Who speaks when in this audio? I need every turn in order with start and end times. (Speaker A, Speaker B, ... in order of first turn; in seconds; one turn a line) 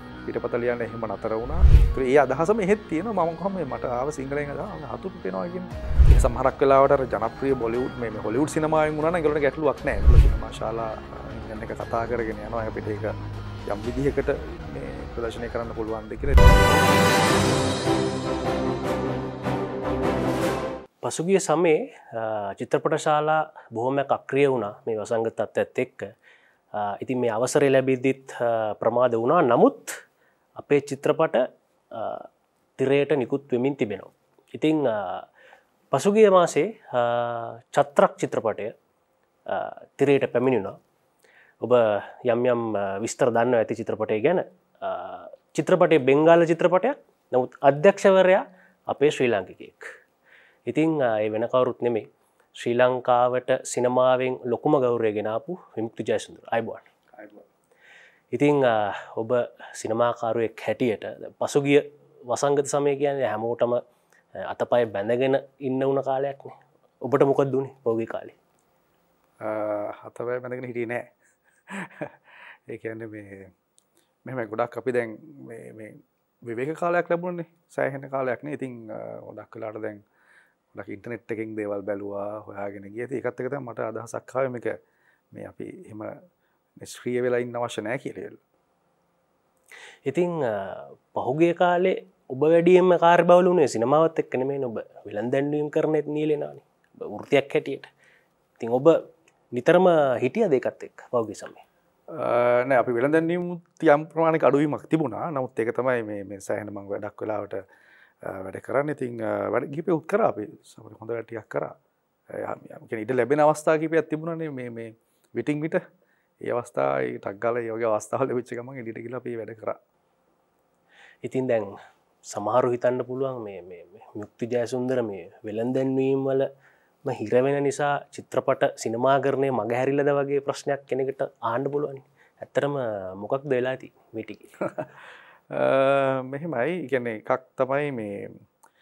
Speaker A: 0.2-13.1
Speaker A: 13.7-16.9
Speaker B: 21.0-26.1
Speaker B: 26.7-29.9
Speaker B: 30.6-35.3
Speaker B: 35.9-38.7
Speaker B: 39.5-40.8
Speaker B: 41.6-49.9
Speaker B: 50.7-56.9
Speaker B: 58.3-63.8
Speaker B: 64.4-68.4
Speaker A: 69.4-71.1
Speaker A: 71.7-72.1
Speaker A: 72.7-73.5
Speaker A: 74.3-80.0
Speaker A: 80.7-84.8
Speaker A: 85.3-86.1
Speaker A: 86.8-88.4
Speaker B: 90.1-97.9
Speaker B: 98.6-99.0
Speaker B: 99.5-101.6
Speaker A: 102.1-107.6
Speaker A: 108.2-111.7
Speaker A: 112.3-115.8
Speaker A: 116.5-119.8
Speaker B: 121.2-121.7
Speaker B: 122.3-126.5
Speaker B: 127.0-134.5
Speaker A: 135.5-138.4